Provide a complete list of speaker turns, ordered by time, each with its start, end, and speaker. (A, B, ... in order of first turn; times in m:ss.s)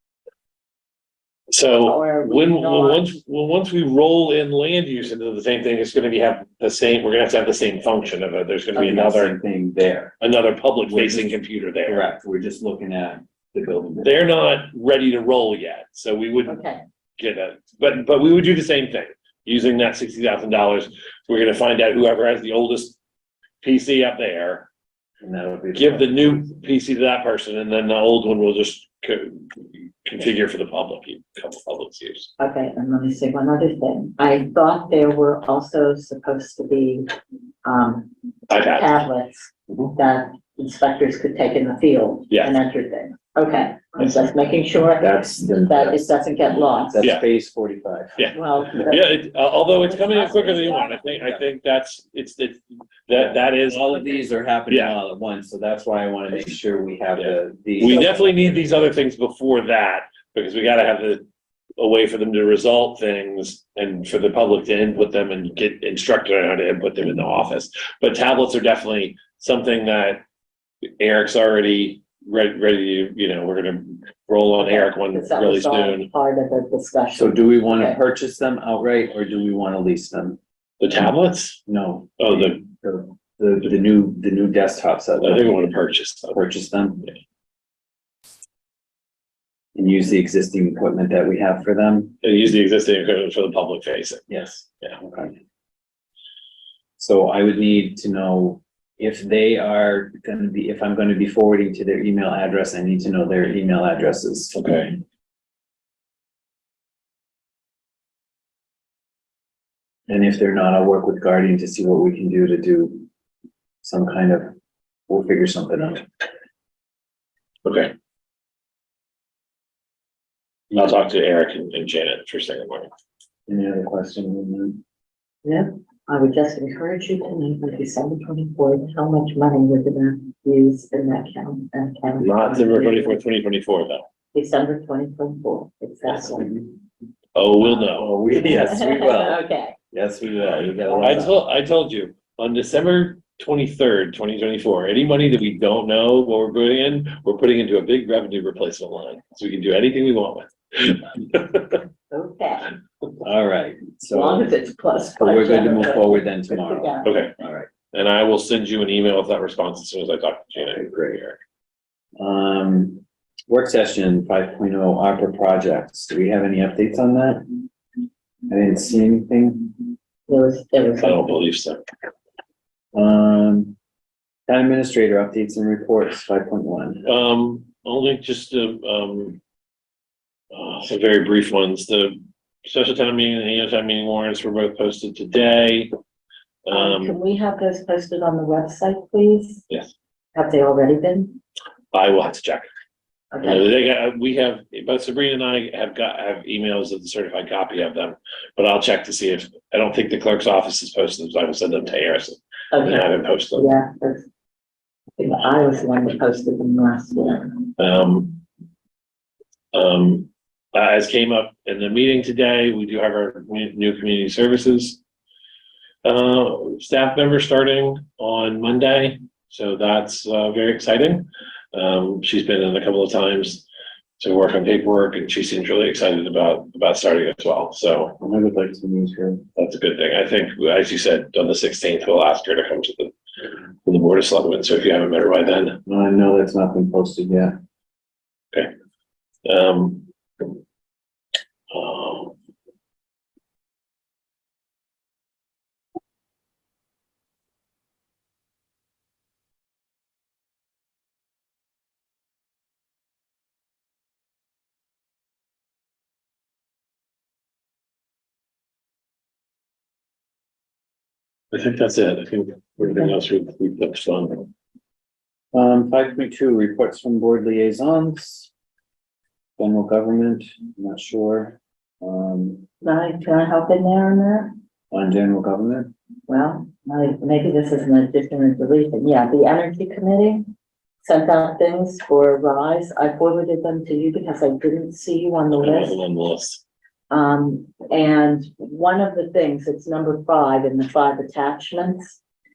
0:01.5-0:09.4 A
0:01.8-0:03.2 B
0:08.8-0:10.2 C
0:10.2-0:12.0 A
0:10.9-0:14.2 C
0:14.0-0:16.6 A
0:16.5-0:16.8 B
0:17.2-0:23.0 A
0:23.6-0:24.7 A
0:25.2-0:26.4 C
0:25.7-0:32.3 A
0:32.4-0:37.1 B
0:37.6-0:47.0 B
0:38.5-0:39.0 A
0:42.3-0:42.6 A
0:45.0-0:46.1 C
0:46.8-0:48.3 C
0:48.2-0:54.1 A
0:48.3-0:51.2 B
0:53.2-0:58.3 C
0:54.7-0:55.0 A
0:57.2-1:01.2 A
1:01.8-1:10.2 A
1:11.0-1:16.1 A
1:14.6-1:18.0 B
1:17.2-1:20.4 C
1:20.8-1:21.6 A
1:21.7-1:25.6 C
1:22.2-1:22.6 A
1:25.2-1:26.4 A
1:26.3-1:27.1 C
1:29.8-1:32.2 C
1:32.2-1:34.2 A
1:34.3-1:35.4 C
1:37.0-1:44.6 C
1:44.6-1:45.0 A
1:50.1-1:53.1 C
1:53.8-1:54.5 C
1:55.1-1:56.1 C
1:57.6-1:57.9 A
2:00.7-2:02.9 A
2:03.5-2:04.8 C
2:05.5-2:13.2 B
2:12.2-2:14.0 A
2:14.3-2:16.6 B
2:17.4-2:18.1 A
2:17.7-2:21.4 C
2:18.3-2:19.8 B
2:21.0-2:31.8 A
2:32.1-2:32.7 B
2:33.2-2:34.6 C
2:34.1-2:37.2 B
2:35.2-2:37.7 C
2:37.0-2:37.4 A
2:37.9-2:41.4 A
2:40.7-2:41.2 C
2:42.2-2:47.6 C
2:48.5-2:49.8 C
2:50.3-2:51.3 B
2:51.0-2:51.8 A
2:52.9-2:53.8 C
2:54.5-2:57.1 C
2:57.0-2:59.4 A
3:00.5-3:05.9 A
3:06.6-3:07.2 A
3:06.7-3:09.6 B
3:10.4-3:11.4 B
3:11.9-3:12.7 A
3:13.3-3:13.7 B
3:13.4-3:23.7 A
3:22.7-3:24.3 B
3:25.2-3:27.7 B
3:27.8-3:28.4 A
3:29.7-3:35.0 A
3:36.0-3:43.6 A
3:44.2-3:48.2 A
3:48.2-3:49.4 C
3:49.6-3:53.1 A
3:53.8-3:55.8 A
3:55.9-3:57.6 C
3:59.4-4:00.1 A
4:01.7-4:02.4 A
4:21.5-4:24.5 A
4:25.5-4:28.5 C
4:29.6-4:32.6 C
4:32.8-4:34.6 B
4:34.9-4:35.9 C
4:36.3-4:40.4 B
4:41.0-4:46.0 B
4:45.6-4:46.6 A
4:47.1-4:52.2 B